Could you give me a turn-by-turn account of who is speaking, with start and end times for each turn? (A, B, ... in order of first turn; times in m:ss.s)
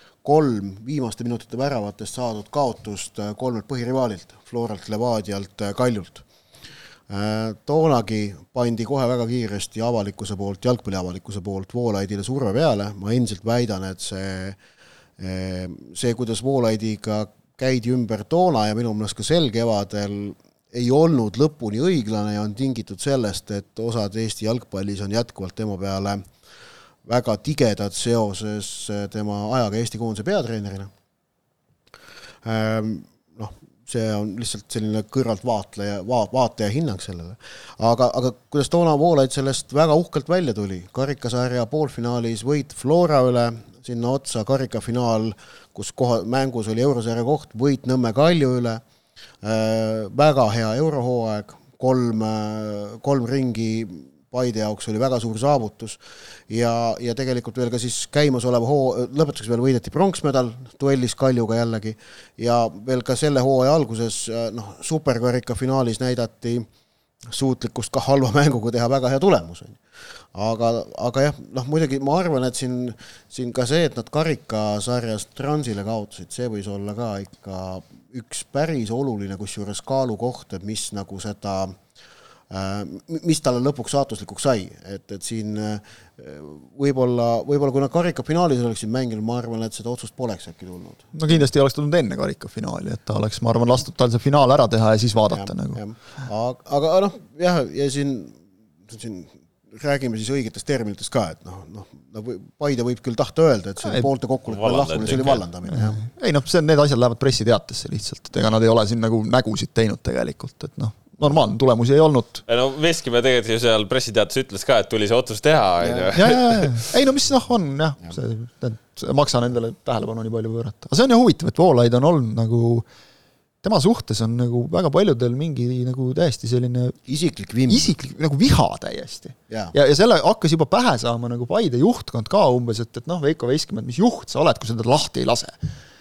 0:00.2-0:06.2 A
0:07.1-0:14.6 A
0:15.2-0:26.2 A
0:27.1-0:30.9 A
0:32.4-0:48.8 A
0:49.4-1:06.7 A
1:07.3-1:09.8 A
1:10.3-1:21.8 A
1:22.5-1:31.4 A
1:31.1-1:35.8 B
1:35.3-1:46.0 A
1:44.5-1:45.4 C
1:45.7-1:52.4 B
1:52.5-1:56.9 C
1:55.8-1:56.2 A
1:56.1-2:02.9 B
2:03.6-2:07.0 B
2:07.1-2:07.9 A
2:07.7-2:15.7 B
2:09.5-2:09.8 A